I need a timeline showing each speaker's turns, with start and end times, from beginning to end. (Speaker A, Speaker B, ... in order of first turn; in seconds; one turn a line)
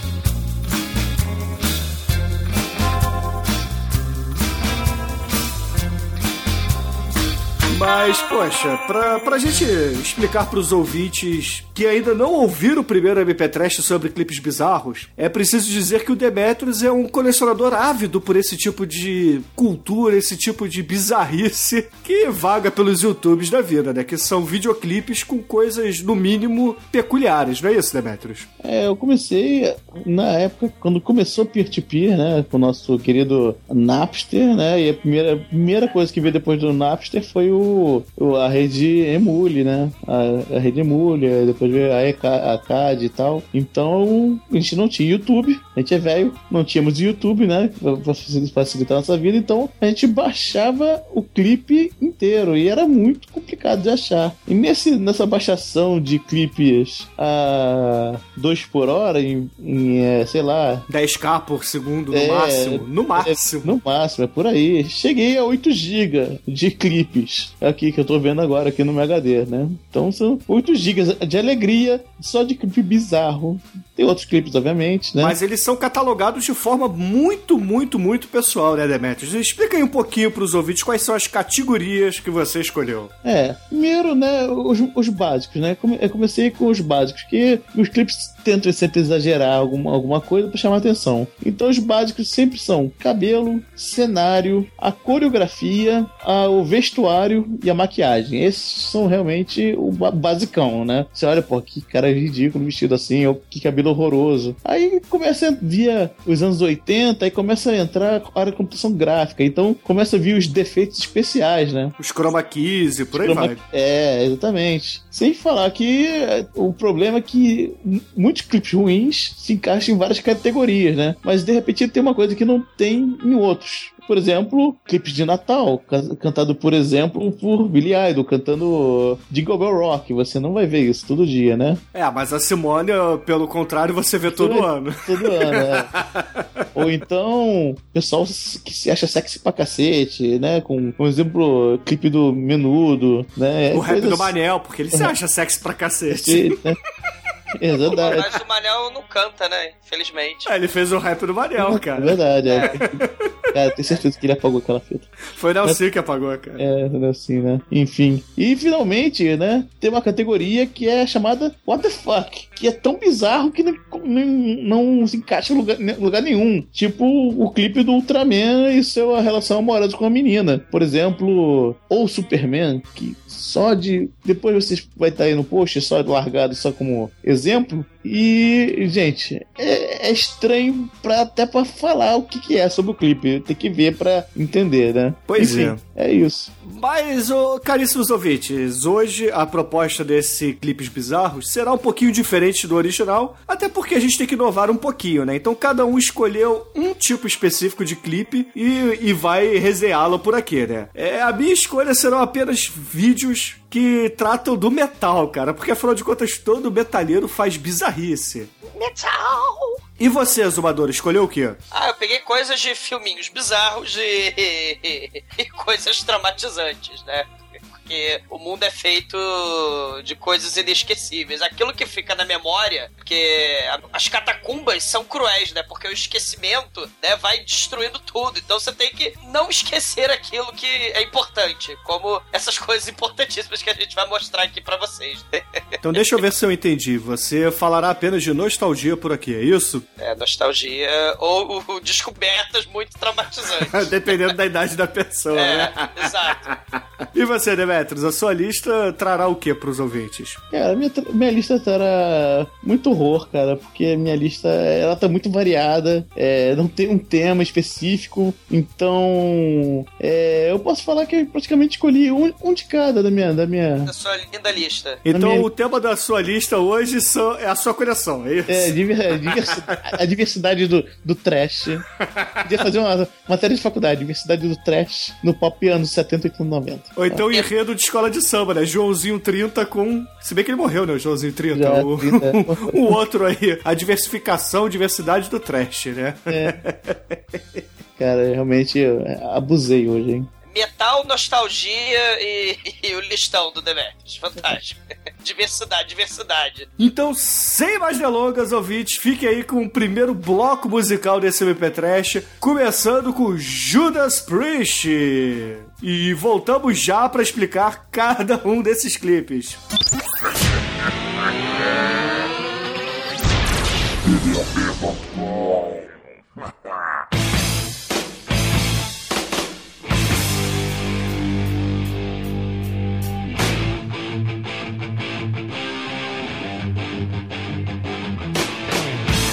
Speaker A: 7.7-28.5
Speaker B: 28.6-60.9
Speaker A: 60.9-63.8
Speaker B: 62.1-75.4
Speaker A: 75.2-83.1
Speaker B: 83.2-111.9
Speaker A: 112.0-113.6
Speaker B: 113.1-131.8
Speaker A: 131.9-136.4
Speaker B: 134.2-135.9
Speaker B: 136.7-144.3
Speaker A: 143.7-146.6
Speaker B: 146.1-146.8
Speaker B: 147.6-148.2
Speaker C: 147.9-150.5
Speaker A: 150.5-153.1
Speaker B: 151.6-152.9
Speaker B: 153.5-155.1
Speaker A: 155.3-156.6
Speaker B: 156.6-186.5
Speaker A: 185.3-185.8
Speaker A: 186.6-208.5
Speaker C: 208.7-209.8
Speaker A: 210.0-211.6
Speaker C: 211.7-236.2
Speaker A: 235.8-239.8
Speaker C: 240.0-244.2
Speaker A: 243.6-246.5
Speaker C: 245.3-246.5
Speaker A: 247.1-250.4
Speaker B: 250.5-263.9
Speaker C: 263.9-265.0
Speaker A: 265.1-269.9
Speaker B: 265.1-265.5
Speaker B: 268.5-271.8
Speaker B: 272.4-277.2
Speaker A: 276.9-287.1
Speaker B: 281.5-282.9
Speaker B: 286.3-286.6
Speaker B: 288.0-290.3
Speaker C: 290.5-296.7
Speaker A: 296.8-309.6